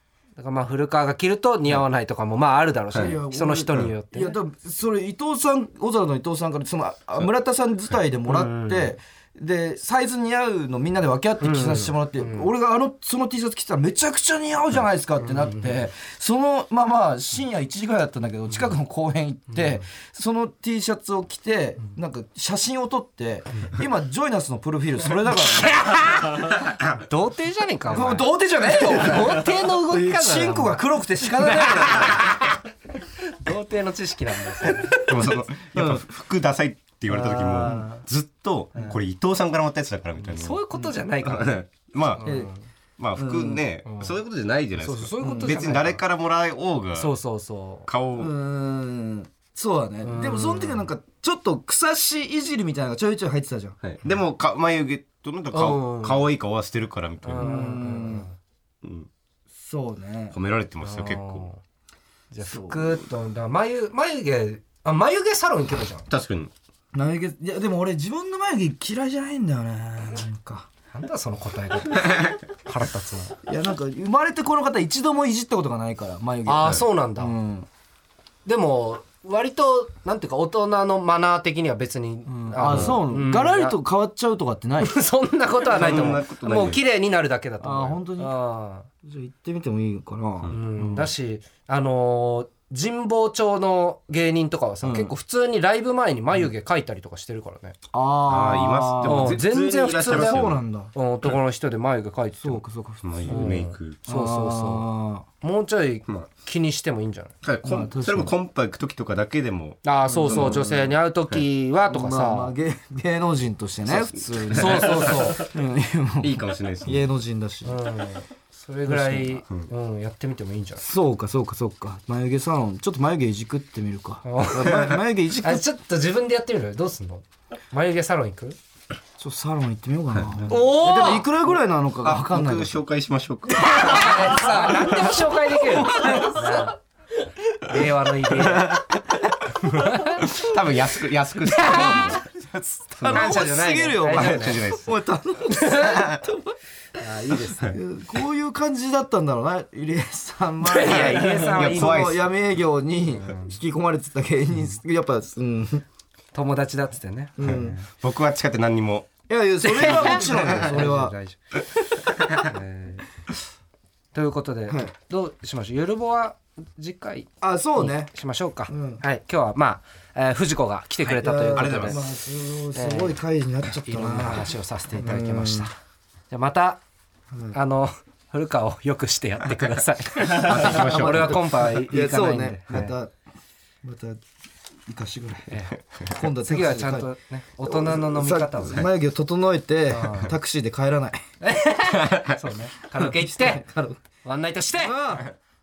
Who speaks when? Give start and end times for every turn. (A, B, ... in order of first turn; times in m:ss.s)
0:00.4-0:04.4 A
0:02.9-0:25.9 B
0:08.3-0:08.9 A
0:11.4-0:12.5 A
0:15.2-0:15.8 A
0:19.5-0:19.8 A
0:25.3-0:32.6 A
0:27.9-0:32.2 B
0:33.4-0:35.0 A
0:34.6-0:36.0 B
0:35.0-0:40.6 C
0:37.1-0:38.0 A
0:37.6-0:37.9 B
0:40.2-0:42.6 A
0:40.7-0:41.0 B
0:41.2-0:42.3 C
0:42.2-0:42.5 B
0:43.0-0:47.1 C
0:43.2-0:43.6 B
0:43.8-0:44.1 A
0:44.8-0:46.0 A
0:45.2-0:45.6 B
0:46.9-0:47.9 A
0:47.9-0:48.3 C
0:48.2-0:53.8 B
0:50.0-0:50.9 A
0:53.8-0:57.5 C
0:55.5-0:56.3 A
0:57.2-0:58.3 A
0:57.4-0:58.3 B
0:58.8-0:59.1 C
0:59.6-1:00.4 B
1:00.3-1:01.5 C
1:00.8-1:01.6 A
1:02.3-1:06.1 A
1:02.4-1:03.0 B
1:06.1-1:06.5 C
1:06.9-1:10.7 B
1:10.9-1:13.4 A
1:13.4-1:17.7 B
1:16.4-1:17.3 A
1:18.4-1:23.8 A
1:22.3-1:25.0 B
1:22.7-1:23.0 C
1:24.8-1:28.9 A
1:25.7-1:26.8 C
1:25.8-1:26.2 B
1:27.6-1:28.3 B
1:29.0-1:31.1 B
1:30.5-1:37.7 A
1:34.8-1:35.1 B
1:37.9-1:39.4 B
1:38.3-1:40.6 C
1:39.0-1:42.6 A
1:40.0-1:40.9 B
1:42.4-1:45.2 B
1:43.0-1:44.0 C
1:43.3-1:44.9 A
1:45.4-1:47.3 A
1:47.4-1:51.4 C
1:47.6-1:48.3 B
1:49.8-1:52.5 A
1:50.0-1:50.9 B
1:51.8-1:57.8 B
1:53.8-1:55.5 C
1:54.5-1:55.5 A
1:56.2-1:57.0 C
1:57.6-2:00.8 A
1:58.8-1:59.4 B
2:00.8-2:05.7 B
2:04.2-2:08.6 A
2:09.2-2:12.8 B
2:10.4-2:11.3 A
2:12.0-2:14.8 C
2:13.6-2:16.8 A
2:14.4-2:16.7 B
2:17.6-2:18.8 A
2:18.4-2:19.0 C
2:19.5-2:20.2 A
2:20.2-2:22.2 C
2:21.5-2:22.1 A
2:21.6-2:35.8 B
2:23.0-2:23.4 C
2:23.1-2:24.7 A
2:24.1-2:24.9 C
2:25.5-2:26.0 A
2:27.0-2:27.8 A
2:27.5-2:27.8 C
2:30.6-2:32.0 A
2:30.8-2:32.3 C
2:33.1-2:33.6 A
2:36.3-2:37.9 A
2:37.4-2:37.8 B
2:37.4-2:39.1 C
2:39.3-2:41.1 B
2:39.6-2:41.4 A
2:39.6-2:40.9 C
2:42.5-2:43.0 A
2:44.1-2:52.0 A
2:47.4-2:48.1 B
2:48.7-2:49.0 B
2:51.0-2:52.0 C
2:51.2-2:55.7 B
2:52.7-2:53.2 A
2:53.8-2:55.7 A
2:56.3-2:56.8 A
2:57.5-3:02.9 A
3:00.2-3:01.6 C
3:00.6-3:03.1 B
3:03.8-3:04.2 B
3:04.9-3:07.1 B
3:05.5-3:08.9 A
3:07.6-3:11.2 B
3:09.9-3:10.3 A
3:11.4-3:13.6 A
3:13.1-3:14.0 B
3:14.2-3:15.2 A
3:14.7-3:15.2 B